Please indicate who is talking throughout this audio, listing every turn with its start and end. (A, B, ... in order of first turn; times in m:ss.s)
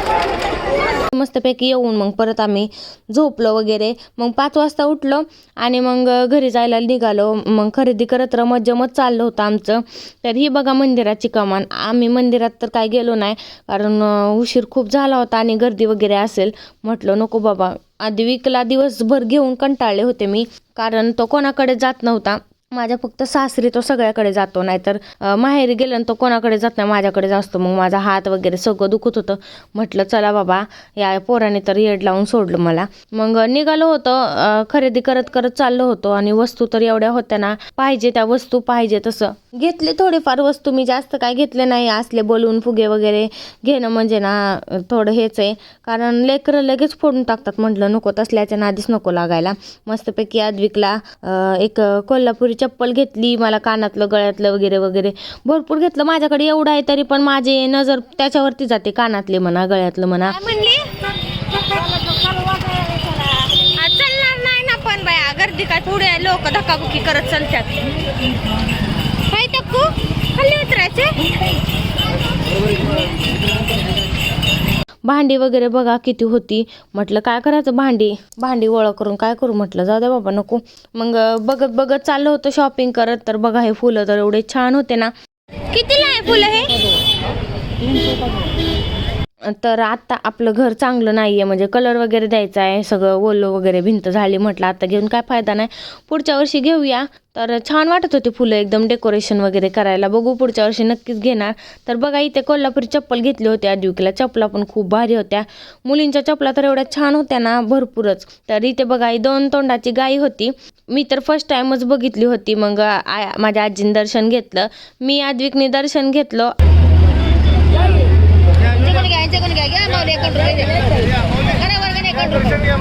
0:01.1-1:00.4 A
1:00.3-1:00.8 B
1:01.6-1:07.8 B
1:09.3-1:11.2 B
1:15.0-1:25.1 A
1:25.7-1:26.7 B
1:29.4-1:56.5 A
1:58.8-2:02.6 B